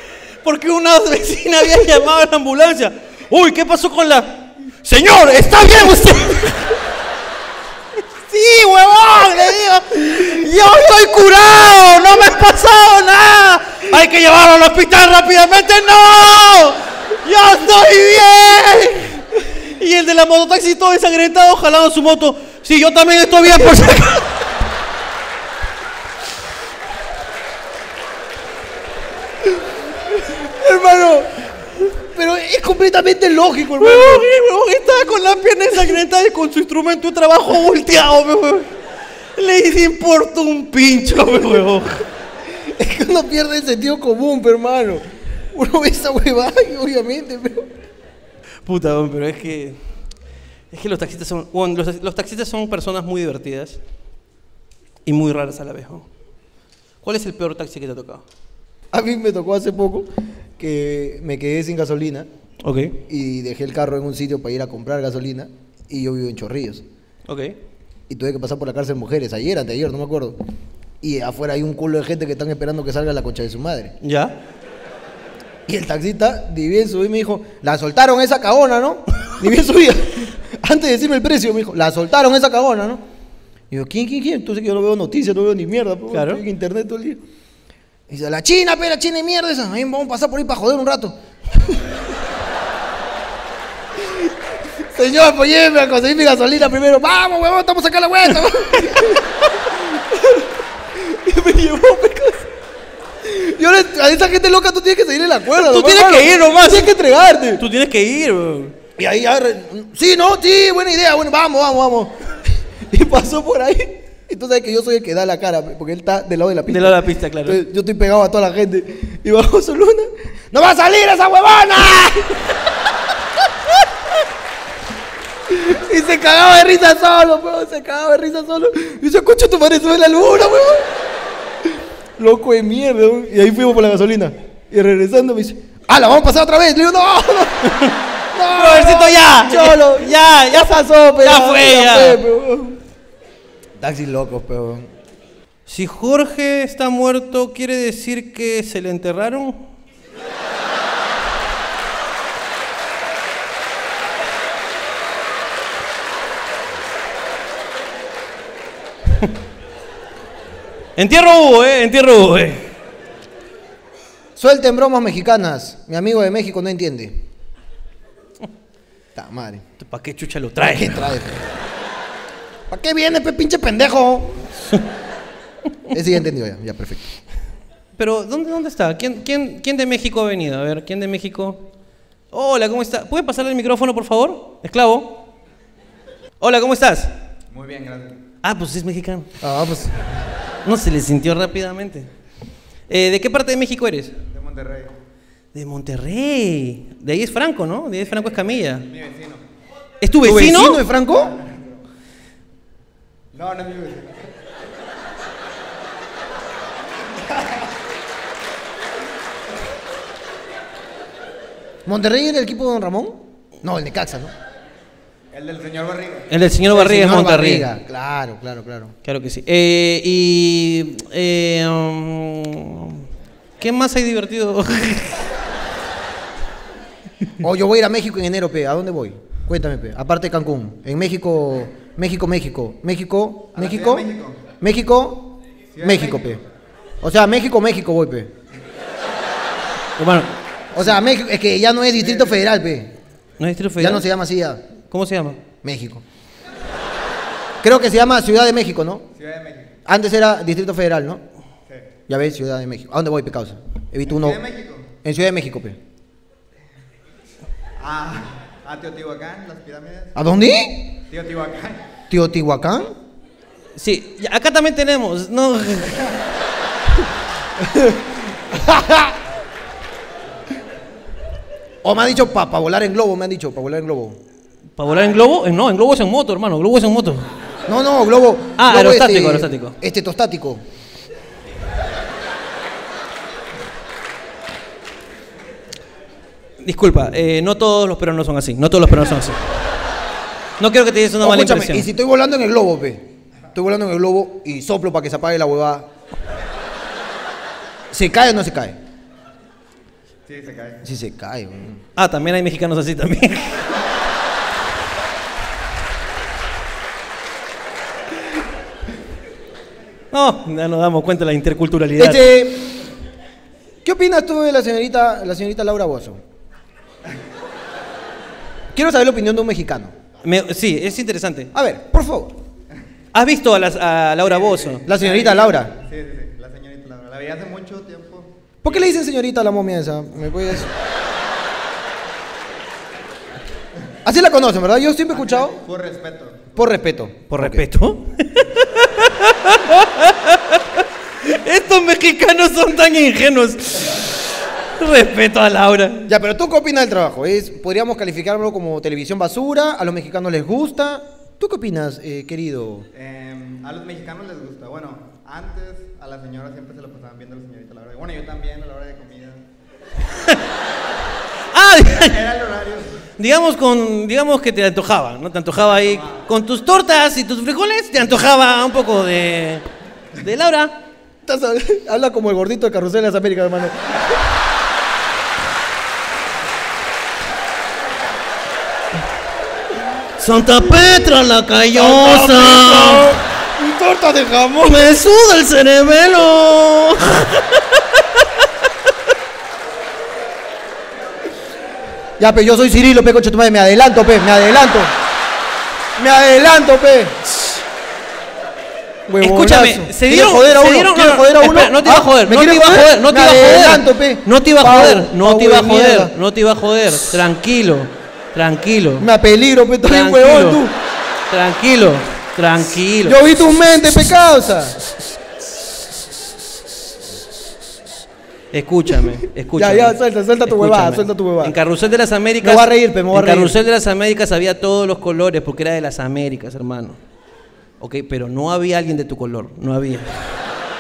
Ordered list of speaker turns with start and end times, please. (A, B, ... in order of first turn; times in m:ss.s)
0:00.4-0:06.8 A
0:08.2-0:24.4 A
0:30.1-0:34.3 B
0:33.8-0:38.7 A
0:39.4-0:42.0 A
0:42.5-0:47.7 B
0:48.7-0:49.8 A
0:50.7-0:53.8 A
0:55.1-0:56.1 A
0:57.0-0:58.2 A
0:58.9-1:02.3 B
1:02.6-1:03.0 A
1:03.0-1:06.8 B
1:07.3-1:07.6 A
1:08.1-1:10.4 B
1:11.0-1:13.9 B
1:14.0-1:14.4 A
1:15.7-1:23.0 B
1:23.7-1:27.2 B
1:26.1-1:26.4 A
1:28.1-1:31.9 B
1:34.0-1:42.5 B
1:38.9-1:39.2 A
1:43.2-1:47.6 B
1:45.5-1:46.9 A
1:47.6-1:48.8 A
1:49.0-2:02.7 B
1:56.7-1:57.6 A
2:05.5-2:10.9 B
2:12.2-2:22.8 B
2:17.6-2:18.0 A
2:18.5-2:22.2 A
2:23.8-2:24.9 B
2:25.7-2:29.7 A
2:41.0-2:42.7 A
2:44.4-2:47.2 B
2:49.2-2:49.6 B
2:49.8-2:51.3 A
2:50.6-2:51.5 B
2:52.7-2:54.5 B
2:55.9-2:57.1 B
2:58.0-3:01.7 A
3:02.3-3:05.2 A
3:06.4-3:07.1 A
3:07.5-3:08.2 C
3:08.4-3:09.3 A
3:09.4-3:09.9 B
3:10.6-3:12.1 A
3:12.9-3:14.2 A
3:14.3-3:14.9 C
3:15.5-3:18.9 A
3:18.1-3:19.4 C
3:20.0-3:20.8 A
3:20.2-3:21.4 B
3:21.1-3:21.8 C
3:23.3-3:24.3 C
3:27.2-3:27.7 C
3:31.9-3:34.3 B
3:35.3-3:36.3 C
3:36.3-3:37.7 A
3:36.7-3:39.0 B
3:39.0-3:43.0 A
3:43.6-3:45.2 A
3:47.4-3:56.4 B
3:53.6-3:54.4 C
3:55.7-3:56.4 C
3:57.0-3:58.3 B
4:00.0-4:00.4 A
4:00.7-4:02.9 B
4:02.0-4:02.3 C
4:03.4-4:04.1 A
4:03.8-4:04.6 B
4:04.9-4:05.4 A
4:05.6-4:06.0 B
4:07.6-4:09.0 B
4:09.2-4:09.8 C
4:09.9-4:11.2 B
4:12.1-4:14.4 B
4:14.1-4:14.9 C
4:15.0-4:15.8 B
4:17.8-4:20.1 C
4:20.2-4:21.0 B
4:21.1-4:21.8 C
4:22.1-4:22.9 B
4:23.8-4:26.1 A
4:27.6-4:29.2 B
4:31.8-4:34.2 B
4:34.8-4:37.3 A
4:37.7-4:40.6 B
4:38.6-4:39.8 A
4:46.6-4:49.4 A
4:50.6-4:51.9 A
4:51.2-4:55.9 B
4:57.9-4:58.8 B
5:00.2-5:00.8 C
5:00.8-5:01.8 B
5:02.0-5:03.6 A
5:10.1-5:12.3 A
5:12.0-5:12.7 B
5:13.8-5:16.2 B
5:18.7-5:19.9 B
5:20.2-5:21.5 A
5:21.5-5:22.4 B
5:23.1-5:24.9 A
5:24.4-5:28.8 C
5:24.9-5:25.8 B
5:28.6-5:30.7 B
5:34.0-5:35.6 B
5:35.1-5:36.6 C
5:36.6-5:37.6 B
5:37.3-5:44.2 A
5:44.8-5:46.1 A
5:46.1-5:52.9 B
5:52.9-5:59.4 C
6:01.5-6:02.2 A
6:01.8-6:03.0 C
6:03.2-6:09.6 A
6:05.7-6:06.2 C
6:10.2-6:10.8 A
6:11.2-6:14.0 B
6:20.2-6:23.1 A
6:21.7-6:25.0 B
6:24.6-6:28.0 A
6:32.2-6:34.9 B
6:36.0-6:37.2 B
6:39.1-6:46.1 B
6:39.2-6:49.1 A
6:49.0-6:50.8 B
6:49.8-6:50.6 A
6:51.3-6:53.2 A
6:53.0-6:54.8 B
6:58.5-7:07.0 A
6:59.6-7:01.6 B
7:02.4-7:03.6 B
7:07.8-7:10.3 A